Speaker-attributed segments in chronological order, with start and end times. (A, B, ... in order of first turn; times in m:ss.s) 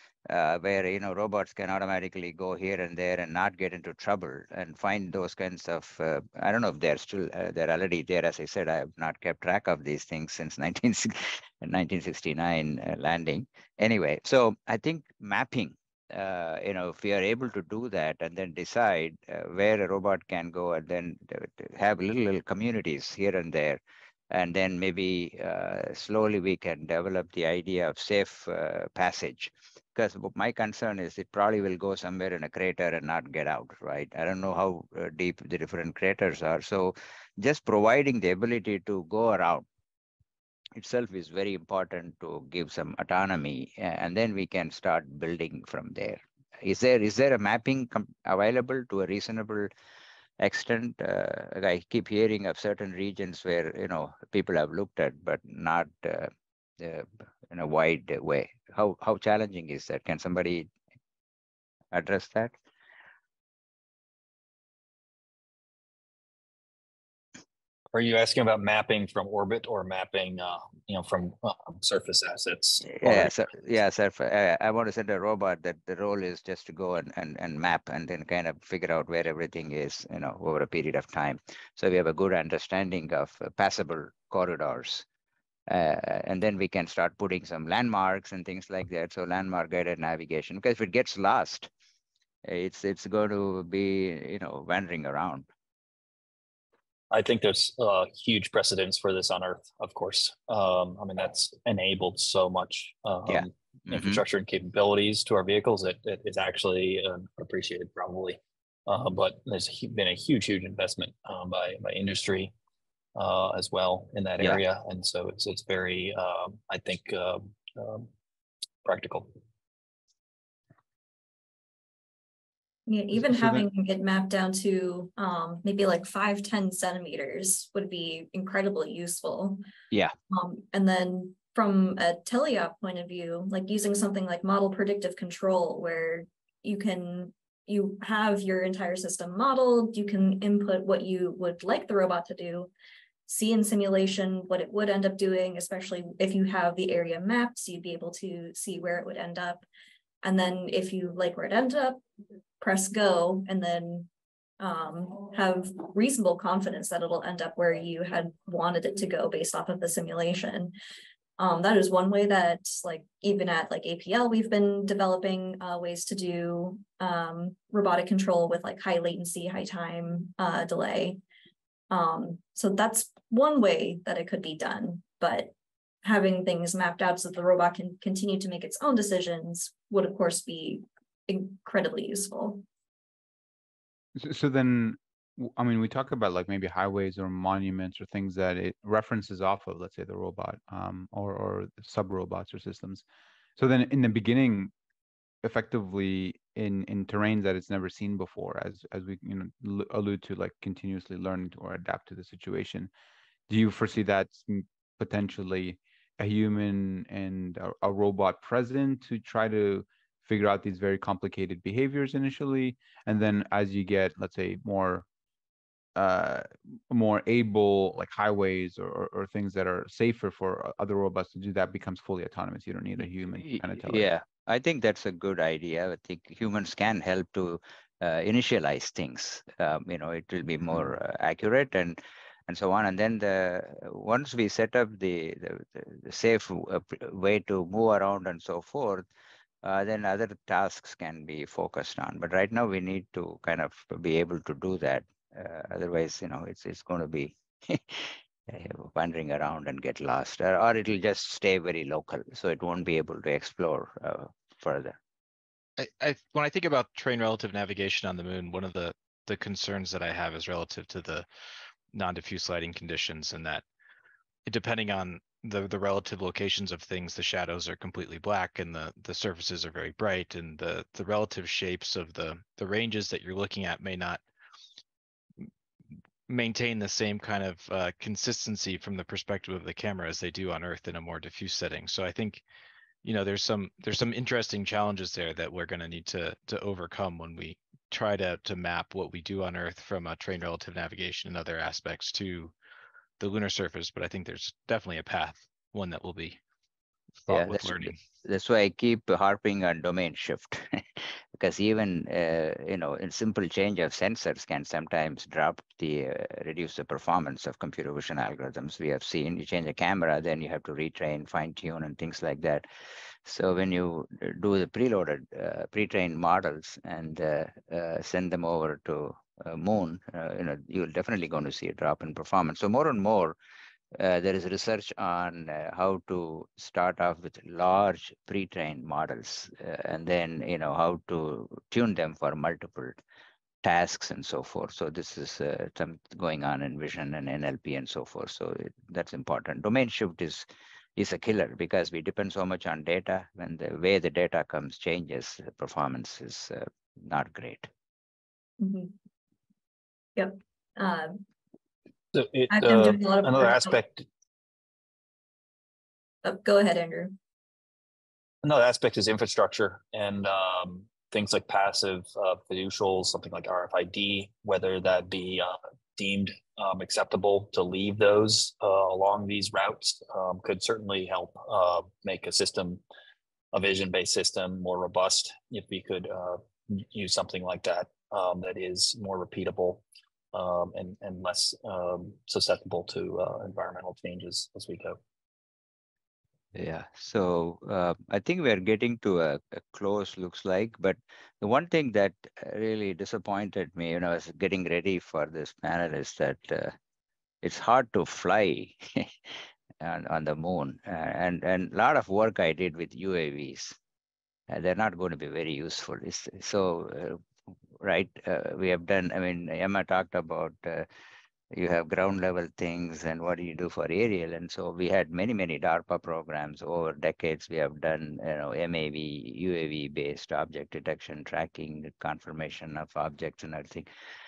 0:00.3-0:23.8 A
0:24.3-0:39.6 A
0:40.8-0:49.7 A
0:50.4-1:00.7 A
1:01.9-1:02.6 A
1:07.9-1:13.4 B
1:12.8-1:25.0 A
1:25.7-1:31.7 A
1:32.4-1:35.4 A
1:37.1-1:52.5 B
1:43.3-1:44.2 A
1:53.1-1:58.1 B
1:58.8-1:59.3 B
2:02.9-2:09.6 C
2:10.3-2:22.7 C
2:23.3-2:29.6 C
2:30.2-2:32.0 C
2:32.6-2:34.1 C
2:34.6-2:40.7 C
2:41.4-2:51.2 C
2:51.9-2:55.5 C
2:56.0-3:02.6 C
3:04.1-3:13.0 D
3:13.6-3:14.7 D
3:15.4-3:22.9 D
3:23.5-3:35.0 D
3:36.0-3:44.1 D
3:43.0-3:59.0 A
3:59.6-4:15.0 A
4:15.8-4:21.2 E
4:21.9-4:23.6 E
4:24.4-4:34.2 E
4:36.3-4:42.4 E
4:43.0-4:52.5 E
4:53.2-4:56.4 E
4:57.2-4:58.0 E
4:57.3-5:12.6 A
5:13.2-5:23.4 A
5:24.0-5:33.0 A
5:33.6-5:47.7 A
5:48.6-5:48.9 C
5:50.2-5:51.2 C
5:52.1-5:54.0 B
5:52.5-5:53.8 C
5:56.2-5:57.1 C
5:58.4-6:12.8 B
6:13.5-6:25.0 B
6:26.5-6:36.7 A
6:37.4-6:43.8 A
6:44.5-6:47.2 A
6:47.8-6:50.9 A
6:51.5-7:03.9 A